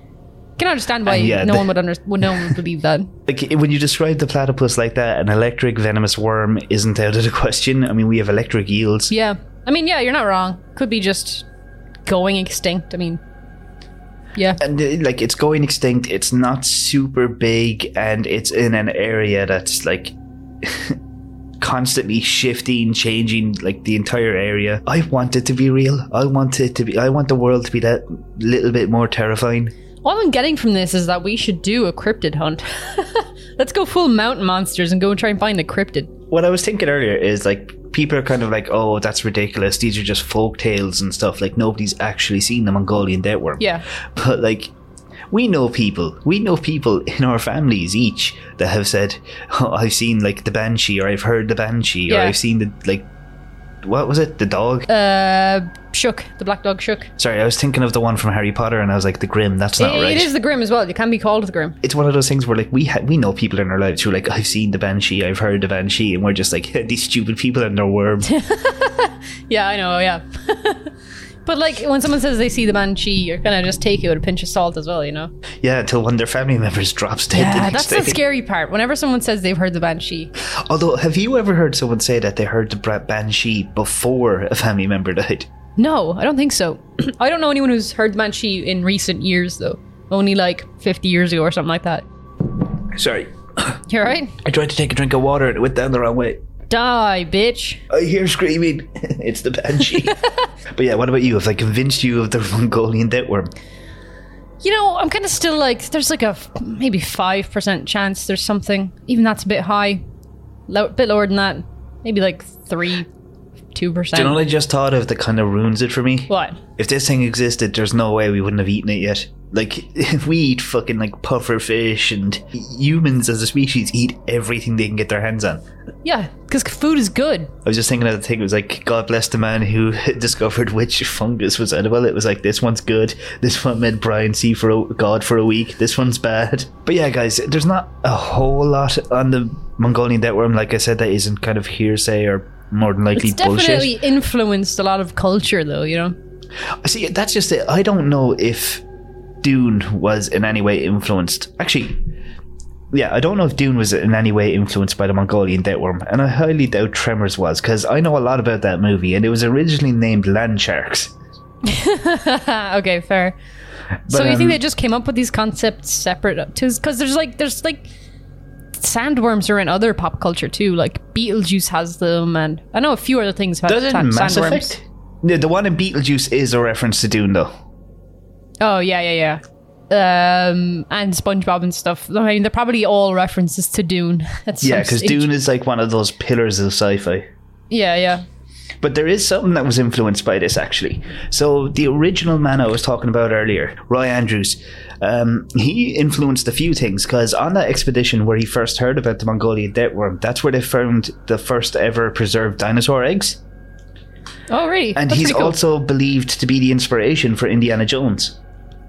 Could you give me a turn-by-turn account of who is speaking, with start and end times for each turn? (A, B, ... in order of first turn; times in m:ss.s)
0:00.6-0:03.1 A
0:01.0-0:01.7 B
0:03.3-0:09.1 B
0:09.1-0:11.4 A
0:12.0-0:13.2 A
0:14.6-0:21.0 B
0:21.6-0:29.7 B
0:30.0-0:36.1 A
0:36.3-0:44.7 B
0:45.3-0:53.1 B
0:52.1-0:52.4 A
0:53.8-0:54.9 B
0:54.9-0:57.1 A
0:57.2-1:00.3 B
0:59.8-1:01.8 A
1:01.8-1:08.3 B
1:08.2-1:10.9 A
1:11.4-1:15.3 A
1:15.6-1:18.2 B
1:17.3-1:20.3 A
1:20.4-1:25.5 B
1:25.8-1:32.0 A
1:32.8-1:33.8 B
1:33.9-1:34.4 A
1:34.4-1:36.4 B
1:36.7-1:37.8 A
1:37.9-1:40.2 B
1:40.0-1:40.4 A
1:40.7-1:43.5 B
1:44.6-1:50.0 A
1:50.7-1:53.1 A
1:53.7-1:54.4 A
1:54.1-2:05.6 B
1:56.3-1:56.6 A
2:06.0-2:07.5 A
2:07.6-2:23.9 B
2:23.1-2:26.2 A
2:26.8-2:28.8 B
2:29.4-2:32.0 B
2:32.9-2:41.1 B
2:41.6-2:43.4 A
2:44.1-2:44.6 B
2:44.1-2:47.9 A
2:48.8-2:54.7 A
2:53.6-2:57.5 B
2:58.6-3:05.3 A
3:04.6-3:07.2 B
3:07.7-3:08.2 A
3:08.8-3:23.4 B
3:24.5-3:25.6 A
3:24.9-3:28.4 B